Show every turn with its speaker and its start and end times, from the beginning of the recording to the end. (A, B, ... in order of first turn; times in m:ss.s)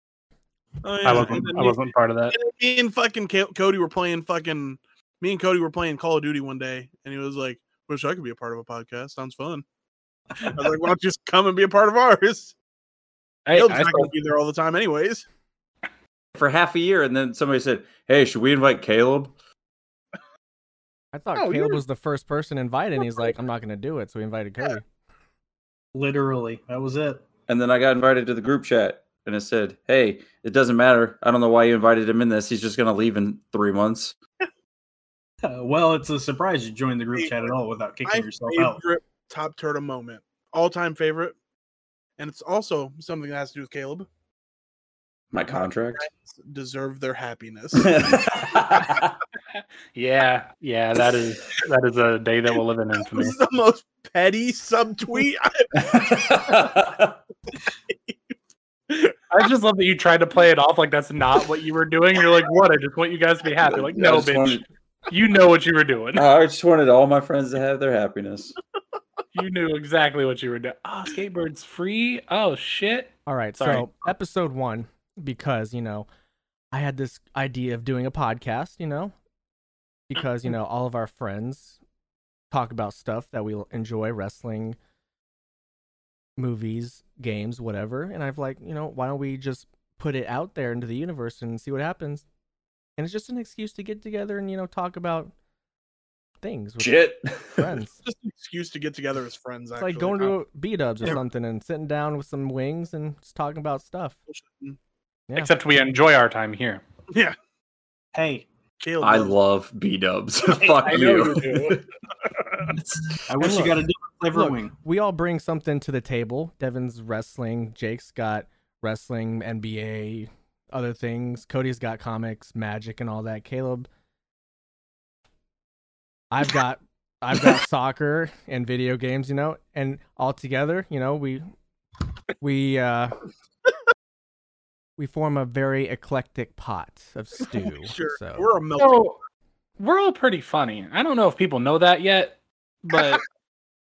0:00.8-0:01.8 A
0:01.0-0:01.6 B
0:01.0-0:02.4 C
0:02.3-0:09.6 A
0:10.4-0:12.6 A
0:13.5-0:14.1 C
0:13.5-0:15.3 A
0:16.4-0:19.3 D
0:21.1-0:24.8 E
0:21.4-0:21.8 A
0:25.9-0:27.2 B
0:27.5-0:34.2 D
0:35.4-0:38.8 B
0:37.2-0:37.5 A
0:38.1-0:41.4 A
0:42.2-0:44.1 A
0:45.3-0:46.1 D
0:45.5-0:48.2 A
0:47.8-0:49.2 D
0:49.6-0:53.4 C
0:53.1-0:55.9 A
0:55.8-0:57.2 D
0:58.9-0:59.2 A
0:59.3-1:06.3 C
1:03.6-1:04.6 D
1:06.2-1:08.6 D
1:09.3-1:13.9 C
1:13.3-1:16.1 E
1:16.7-1:19.1 E
1:20.1-1:21.8 E
1:22.5-1:24.8 E
1:26.4-1:32.2 E
1:33.0-1:35.3 E
1:36.4-1:38.0 E
1:36.8-1:37.8 D
1:38.0-1:40.4 A
1:39.8-1:44.2 E
1:44.3-1:44.8 A
1:45.4-1:46.8 C
1:47.1-1:47.4 A
1:48.1-1:48.5 B
1:48.8-1:49.4 A
1:49.0-1:51.8 D
1:50.8-1:51.8 C
1:52.3-1:52.8 A
1:52.7-1:54.7 B
1:53.4-1:53.7 D
1:54.3-2:03.9 E
2:06.3-2:11.5 E
2:12.4-2:13.2 E
2:15.0-2:18.5 E
2:17.6-2:19.1 A
2:18.8-2:19.2 C
2:19.8-2:23.2 C